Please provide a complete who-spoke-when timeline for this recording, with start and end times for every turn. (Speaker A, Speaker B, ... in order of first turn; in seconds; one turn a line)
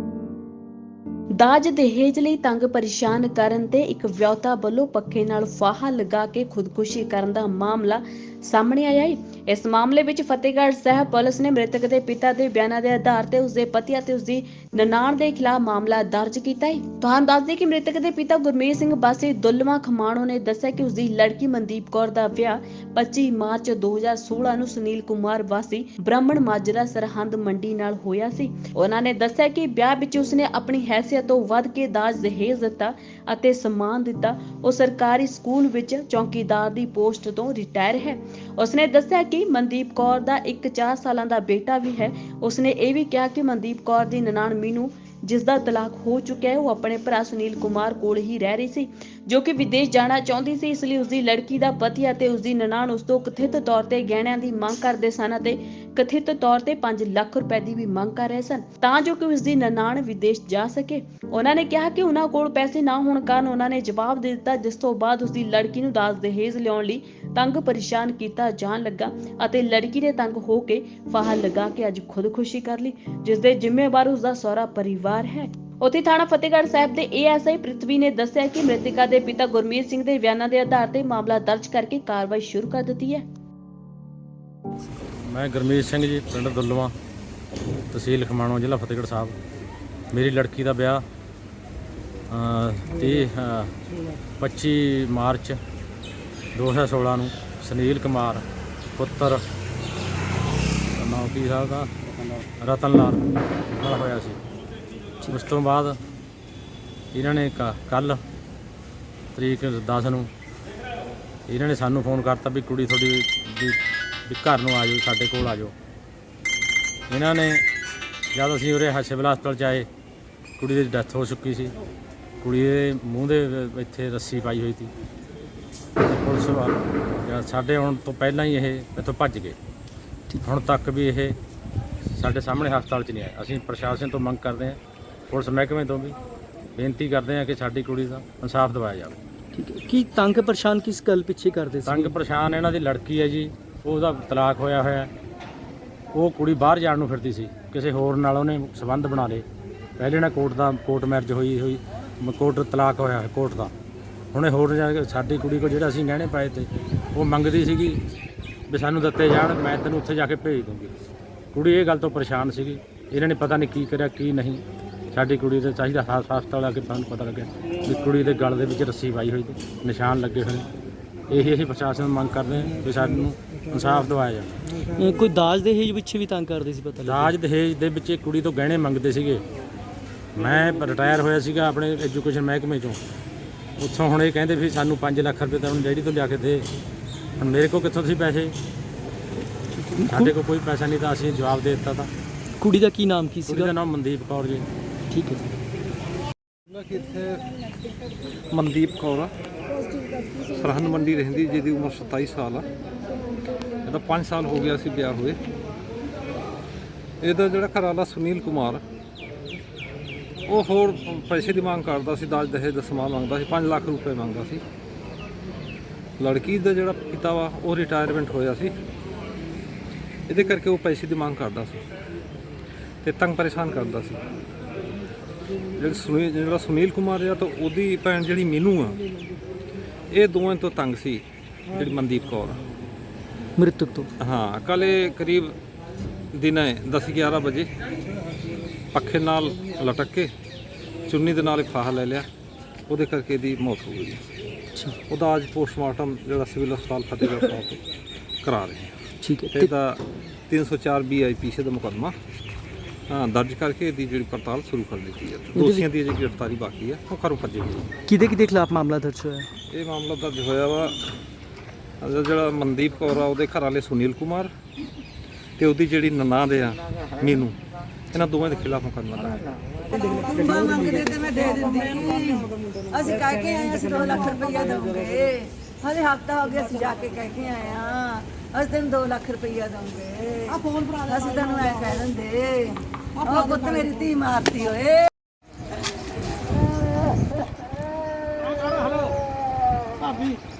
Speaker A: 1.4-83.2
Speaker B: 85.2-86.9
Speaker B: 87.9-89.3
Speaker B: 90.1-91.0
Speaker B: 92.3-93.7
Speaker B: 94.4-95.6
Speaker B: 96.5-98.4
Speaker B: 99.0-99.4
Speaker B: 100.9-101.9
Speaker B: 102.6-104.4
Speaker B: 105.3-106.0
Speaker B: 107.1-108.2
Speaker B: 109.3-110.3
Speaker B: 111.5-115.7
Speaker B: 117.1-117.6
Speaker B: 118.3-119.9
Speaker B: 120.6-121.7
Speaker B: 122.4-124.9
Speaker B: 126.0-129.6
Speaker B: 130.4-131.4
Speaker B: 132.1-134.8
Speaker B: 135.3-136.2
Speaker B: 136.8-139.2
Speaker C: 139.5-142.1
Speaker B: 141.8-145.1
Speaker B: 146.1-149.4
Speaker B: 150.0-153.7
Speaker B: 154.3-158.0
Speaker B: 158.7-160.9
Speaker B: 161.5-170.7
Speaker B: 171.3-174.6
Speaker C: 174.9-177.3
Speaker B: 177.1-179.4
Speaker B: 180.3-183.0
Speaker B: 183.8-186.7
Speaker B: 187.4-188.5
Speaker C: 189.8-190.3
Speaker B: 190.1-192.1
Speaker C: 192.6-193.7
Speaker B: 193.5-194.6
Speaker C: 195.1-195.5
Speaker D: 196.7-197.6
Speaker D: 198.5-199.3
Speaker D: 200.1-202.7
Speaker D: 203.8-205.4
Speaker D: 207.2-208.8
Speaker D: 210.5-214.6
Speaker D: 216.2-218.7
Speaker D: 220.3-221.8
Speaker D: 223.0-224.2
Speaker D: 225.8-229.0
Speaker D: 230.1-232.6
Speaker C: 233.6-234.1
Speaker D: 234.2-235.5
Speaker D: 236.3-237.7
Speaker D: 238.9-240.3
Speaker D: 241.1-242.2
Speaker D: 242.9-244.2
Speaker D: 245.1-247.8
Speaker D: 248.4-248.9
Speaker C: 249.2-249.7
Speaker D: 249.5-252.1
Speaker D: 253.1-257.9
Speaker C: 255.5-255.9
Speaker C: 258.1-259.5
Speaker D: 259.7-261.0
Speaker D: 262.0-264.5
Speaker D: 265.6-267.5
Speaker D: 268.1-269.6
Speaker E: 269.9-285.1
Speaker E: 288.4-289.1